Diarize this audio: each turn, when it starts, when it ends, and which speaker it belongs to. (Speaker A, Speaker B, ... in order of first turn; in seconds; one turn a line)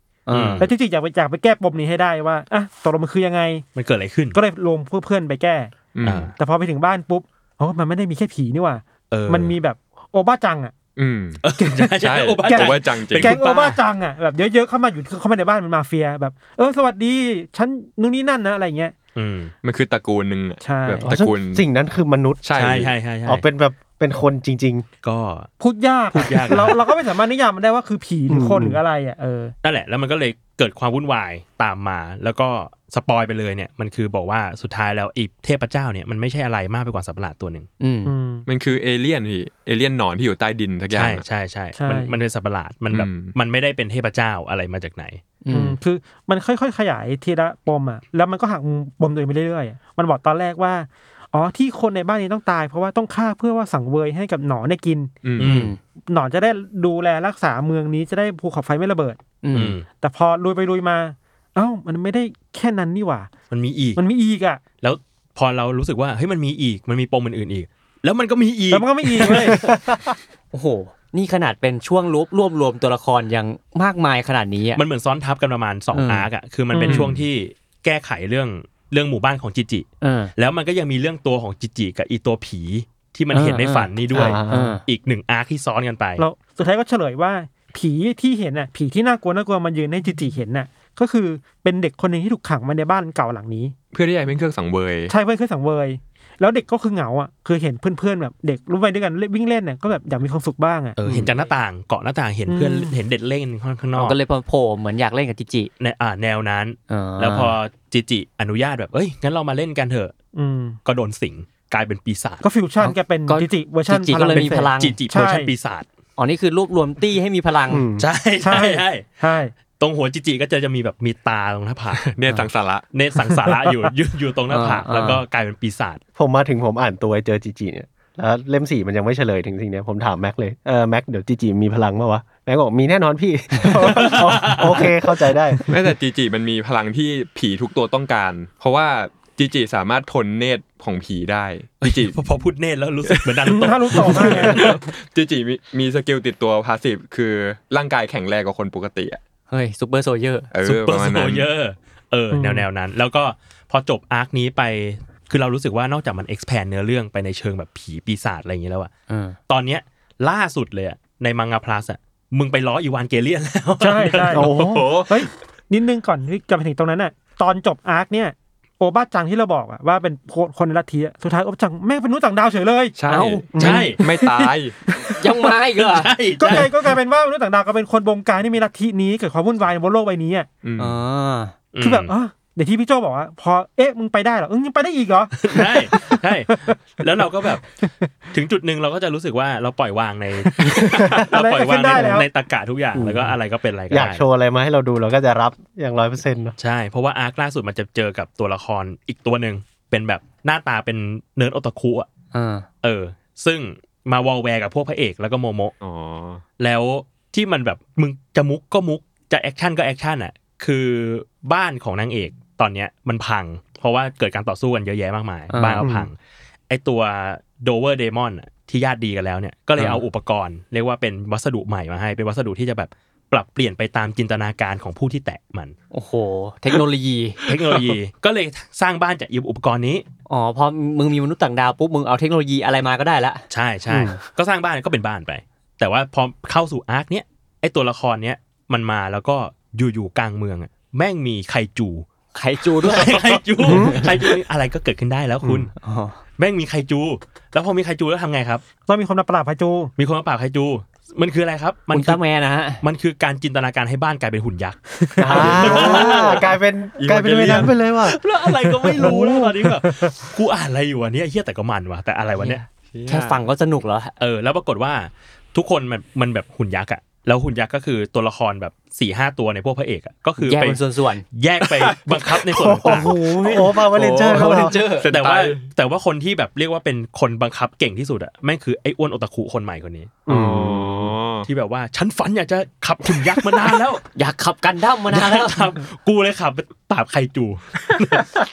Speaker A: 0.2-0.7
Speaker B: 0.3-0.7
Speaker C: 0.6-3.6
Speaker B: 3.7-4.4
Speaker C: 4.3-5.8
Speaker D: 5.9-6.3
Speaker B: 6.0-6.3
Speaker C: 6.3-10.7
Speaker B: 9.1-9.5
Speaker D: 10.9-11.4
Speaker B: 11.4-13.8
Speaker C: 11.6-18.9
Speaker D: 12.0-13.4
Speaker B: 19.1-19.5
Speaker D: 19.6-21.6
Speaker C: 20.6-21.1
Speaker E: 21.0-22.4
Speaker D: 22.4-22.9
Speaker B: 22.5-23.4
Speaker E: 23.3-24.9
Speaker B: 25.0-25.5
Speaker C: 25.6-29.5
Speaker B: 26.1-26.8
Speaker E: 28.3-28.8
Speaker B: 29.6-37.7
Speaker A: 37.8-38.1
Speaker C: 38.0-38.5
Speaker D: 38.5-41.2
Speaker B: 40.9-45.2
Speaker C: 41.8-42.1
Speaker D: 42.9-43.3
Speaker A: 45.4-45.8
Speaker C: 45.5-55.1
Speaker D: 55.2-55.7
Speaker B: 55.4-55.7
Speaker A: 55.4-55.8
Speaker C: 56.1-59.2
Speaker A: 59.4-59.8
Speaker B: 59.5-59.9
Speaker C: 59.9-63.3
Speaker B: 63.5-64.0
Speaker C: 64.0-64.6
Speaker B: 64.8-69.7
Speaker C: 68.7-69.7
Speaker E: 69.3-70.1
Speaker A: 70.5-74.8
Speaker B: 74.7-86.2
Speaker A: 75.9-76.3
Speaker C: 76.7-77.0
Speaker E: 76.9-77.2
Speaker A: 80.0-80.3
Speaker A: 83.3-84.8
Speaker E: 84.1-84.8
Speaker C: 86.2-93.7
Speaker D: 93.9-95.1
Speaker C: 95.1-100.9
Speaker B: 101.0-104.2
Speaker C: 102.5-102.9
Speaker A: 104.0-105.7
Speaker B: 105.8-110.1
Speaker A: 106.9-107.5
Speaker C: 110.3-110.8
Speaker B: 110.8-112.4
Speaker C: 112.4-115.5
Speaker A: 112.8-115.0
Speaker E: 114.3-114.7
Speaker B: 114.8-115.8
Speaker A: 116.2-117.8
Speaker E: 117.7-118.1
Speaker B: 118.0-119.0
Speaker C: 118.4-119.5
Speaker B: 119.8-122.1
Speaker D: 122.0-122.8
Speaker B: 122.9-126.0
Speaker C: 123.5-123.9
Speaker A: 124.5-125.2
Speaker E: 126.2-135.6
Speaker B: 133.7-134.9
Speaker D: 135.7-142.2
Speaker B: 141.8-144.8
Speaker D: 143.1-149.2
Speaker C: 143.5-144.7
Speaker A: 149.5-150.5
Speaker D: 150.5-151.4
Speaker B: 150.6-158.9
Speaker C: 152.3-152.7
Speaker A: 159.1-159.4
Speaker B: 159.5-164.7
Speaker C: 163.8-164.5
Speaker E: 164.3-164.9
Speaker D: 164.4-165.3
Speaker C: 165.1-173.3
Speaker D: 172.9-174.8
Speaker A: 173.1-173.4
Speaker E: 173.5-173.9
Speaker B: 173.6-174.0
Speaker C: 174.1-175.2
Speaker A: 175.1-176.1
Speaker B: 175.8-176.8
Speaker C: 176.4-180.5
Speaker D: 180.6-181.0
Speaker A: 180.8-181.5
Speaker B: 181.7-182.1
Speaker C: 181.8-186.8
Speaker B: 185.4-187.6
Speaker C: 187.4-187.9
Speaker B: 188.3-194.2
Speaker C: 190.4-192.3
Speaker E: 192.9-193.4
Speaker E: 193.9-196.5
Speaker B: 196.6-202.1
Speaker A: 202.3-202.7
Speaker B: 202.8-205.7
Speaker D: 205.8-206.4
Speaker B: 206.6-216.2
Speaker A: 215.5-215.9
Speaker E: 215.8-216.1
Speaker B: 216.7-225.7
Speaker A: 225.9-227.9
Speaker B: 227.4-230.0
Speaker A: 230.3-233.4
Speaker B: 233.5-242.1
Speaker E: 233.9-234.2
Speaker A: 242.3-244.1
Speaker B: 242.8-245.7
Speaker E: 243.6-244.2
Speaker E: 245.4-245.7
Speaker A: 245.8-246.2
Speaker B: 246.4-248.6
Speaker C: 248.8-249.9
Speaker B: 250.0-252.2
Speaker A: 251.9-252.8
Speaker B: 252.8-256.4
Speaker C: 255.0-255.3
Speaker E: 255.2-258.2
Speaker D: 255.3-256.4
Speaker A: 255.7-256.0
Speaker D: 257.0-257.7
Speaker B: 257.7-262.6
Speaker C: 258.6-260.3
Speaker A: 262.4-264.1
Speaker D: 262.9-263.4
Speaker B: 264.2-270.8
Speaker A: 270.4-271.2
Speaker B: 271.3-273.1
Speaker D: 271.7-272.6
Speaker E: 272.5-274.8
Speaker A: 272.9-275.1
Speaker D: 273.4-275.6
Speaker B: 275.0-280.2
Speaker E: 280.3-281.1
Speaker D: 280.3-281.5
Speaker B: 281.4-284.0
Speaker A: 284.1-285.8
Speaker B: 285.1-288.3